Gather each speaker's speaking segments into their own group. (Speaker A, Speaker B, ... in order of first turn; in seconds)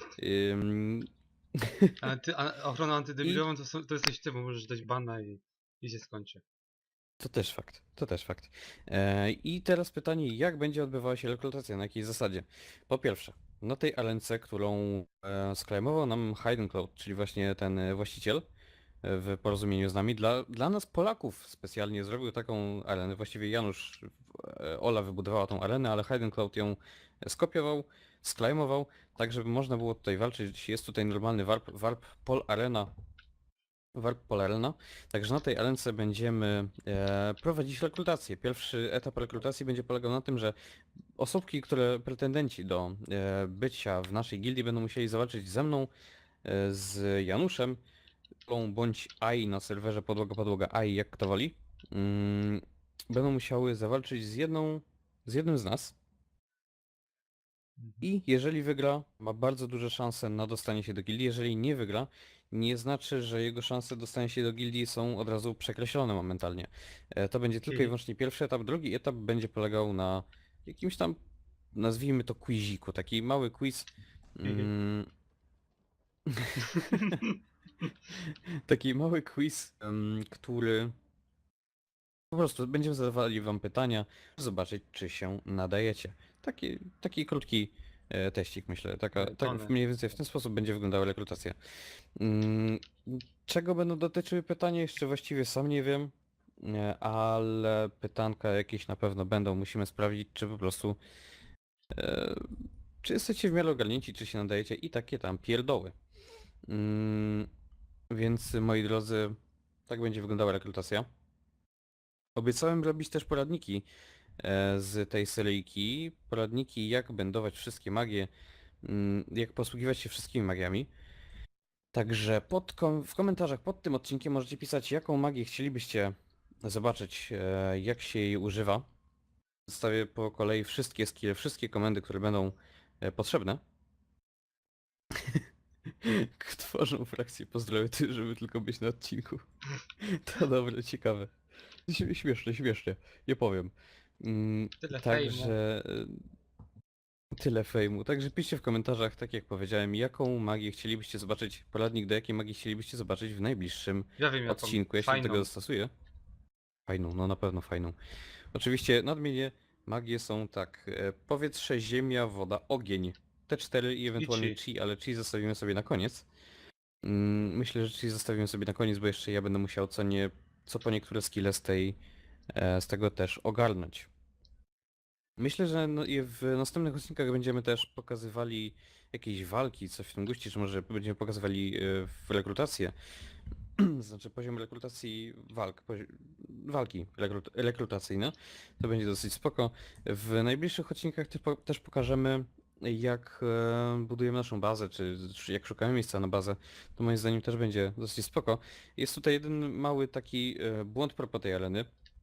Speaker A: 0.1-2.1, 7.2-18.4, 19.0-32.9, 33.9-40.5, 41.2-45.9, 46.4-47.8, 48.5-55.9, 58.0-71.2, 71.7-75.1, 76.3-77.2, 78.1-80.9, 82.3-91.5, 92.2-101.0, 101.9-105.9, 106.7-107.5, 108.1-109.4, 109.9-111.0, 112.3-113.8, 114.4-118.3, 118.8-120.9, 121.9-128.8, 129.7-133.6, 135.2-135.4, 136.0-139.4, 140.0-141.3, 141.9-146.2, 147.3-155.9, 156.9-157.9, 158.5-166.2, 167.0-171.9, 172.5-174.1, 175.4-182.9, 183.8-201.9
Speaker B: 2.0-6.4, 57.8-58.1, 67.7-67.9, 74.4-74.7, 76.8-77.4, 89.1-89.8, 144.8-145.6, 154.2-155.5, 164.2-164.6